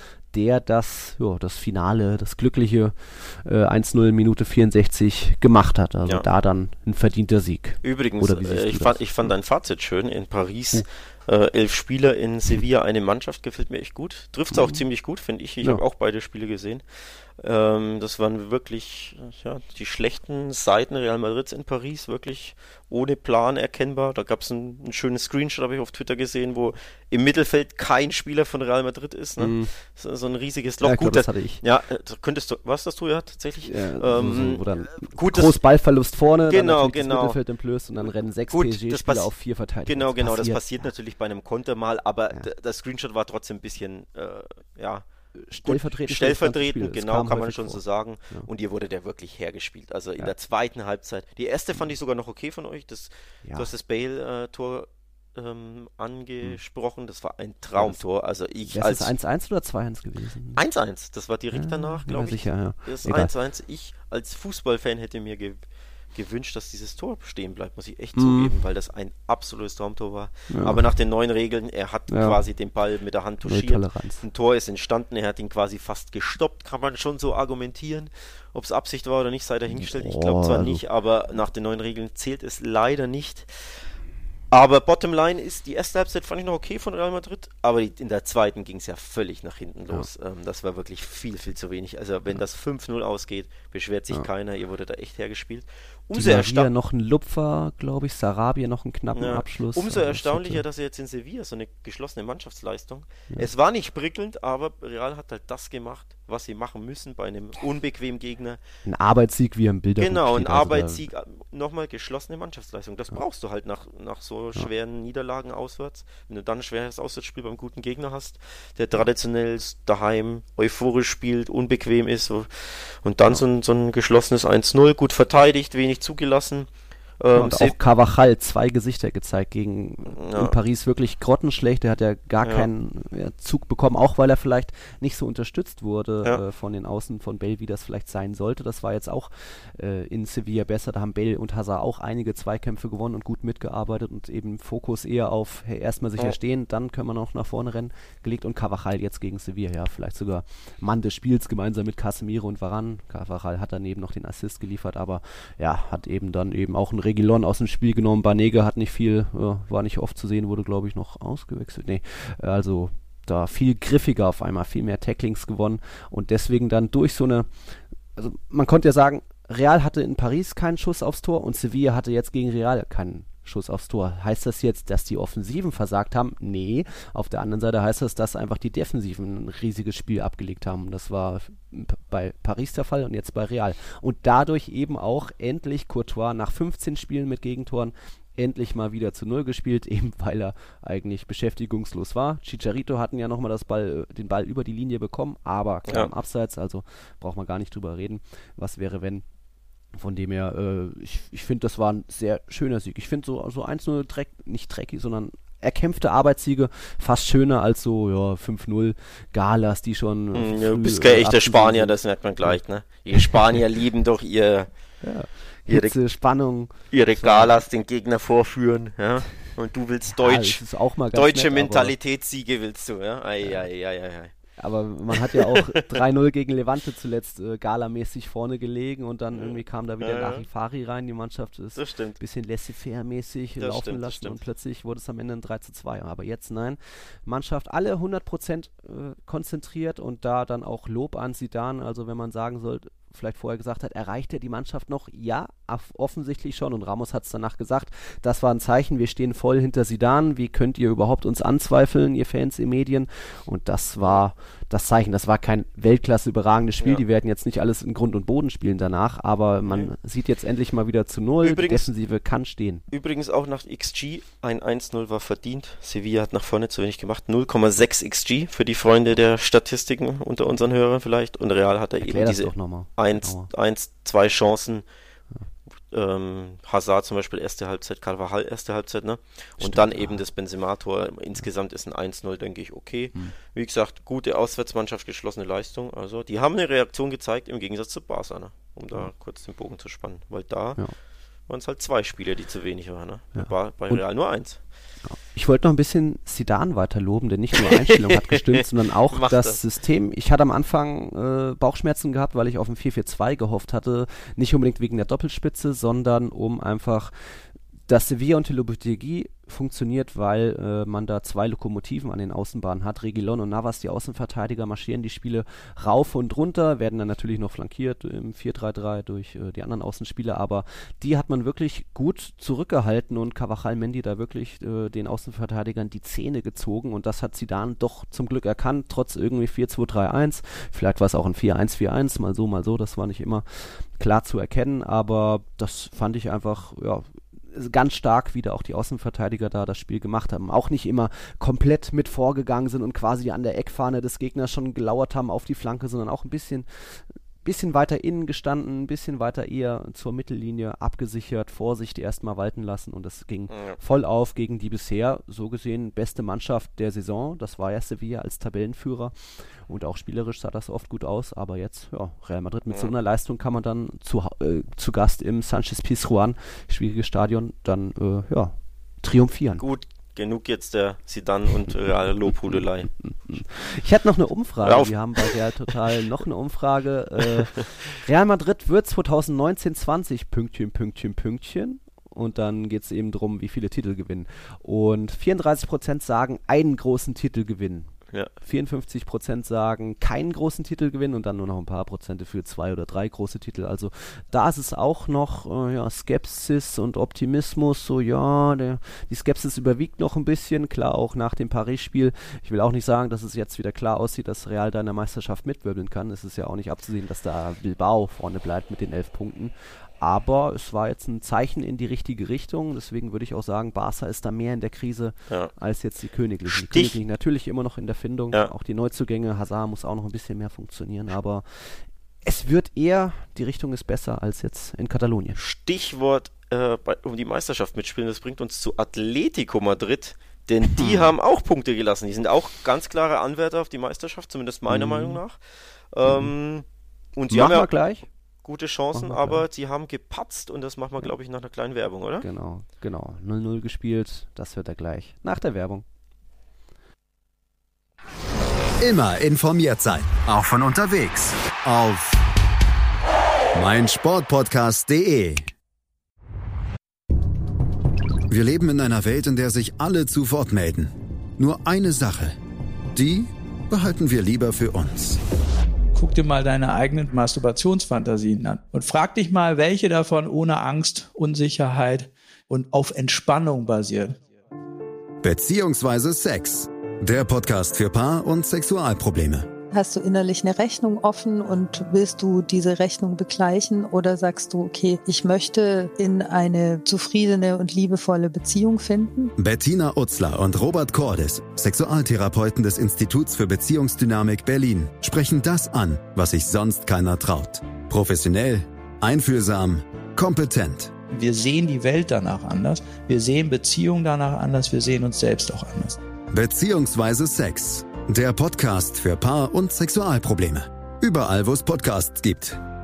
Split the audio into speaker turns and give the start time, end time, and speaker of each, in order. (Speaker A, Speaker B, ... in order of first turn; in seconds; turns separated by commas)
Speaker A: 0.3-9.2, Speaker B: 7.8-35.6, Speaker A: 14.5-14.8, Speaker A: 29.4-29.7, Speaker A: 30.8-31.6, Speaker A: 33.6-40.9, Speaker B: 36.5-37.4, Speaker B: 38.5-39.3, Speaker B: 39.8-45.0, Speaker A: 45.4-48.5, Speaker B: 45.6-59.1, Speaker A: 53.4-53.7, Speaker A: 57.8-58.0, Speaker A: 58.7-60.6, Speaker B: 60.5-83.5, Speaker A: 61.5-63.3, Speaker A: 68.2-68.5, Speaker A: 70.5-70.8, Speaker A: 72.1-72.4, Speaker A: 73.4-74.2, Speaker A: 79.7-80.8, Speaker B: 84.5-96.7, Speaker A: 96.1-100.6, Speaker B: 99.1-108.6, Speaker A: 108.8-111.1, Speaker B: 110.0-127.8, Speaker A: 127.3-167.5, Speaker B: 130.1-130.5, Speaker B: 132.4-132.7, Speaker A: 168.2-199.2, Speaker A: 199.9-212.6, Speaker B: 210.3-214.7, Speaker A: 213.1-213.6, Speaker A: 215.0-217.6, Speaker B: 215.7-215.9, Speaker B: 216.9-220.6, Speaker A: 220.1-221.9, Speaker B: 221.1-224.3, Speaker A: 224.6-262.8, Speaker B: 225.1-226.0, Speaker B: 229.3-230.4, Speaker B: 231.7-232.2, Speaker B: 233.6-234.4, Speaker B: 259.6-259.9, Speaker B: 261.4-261.9, Speaker B: 262.9-274.9, Speaker A: 272.0-273.5, Speaker B: 275.9-290.8, Speaker A: 279.6-280.2, Speaker B: 291.4-294.6, Speaker A: 293.4-294.1, Speaker A: 295.0-307.1, Speaker B: 297.6-299.6, Speaker A: 307.9-369.6, Speaker B: 353.5-353.8, Speaker B: 369.6-372.9, Speaker A: 372.5-425.4, Speaker B: 374.6-375.7, Speaker B: 377.2-377.6, Speaker B: 416.5-417.0, Speaker B: 425.4-436.6, Speaker A: 430.8-431.1, Speaker A: 434.7-435.2, Speaker A: 436.1-436.3, Speaker B: 437.1-437.7, Speaker A: 437.3-438.1, Speaker B: 438.4-442.3, Speaker A: 438.9-439.4, Speaker A: 442.2-445.8, Speaker C: 448.8-452.2, Speaker C: 453.5-455.5, Speaker C: 458.3-462.4, Speaker C: 462.9-465.2, Speaker D: 465.9-474.2, Speaker C: 475.2-479.5, Speaker E: 479.7-489.3, Speaker C: 489.4-500.9, Speaker D: 501.1-506.0, Speaker C: 506.3-512.6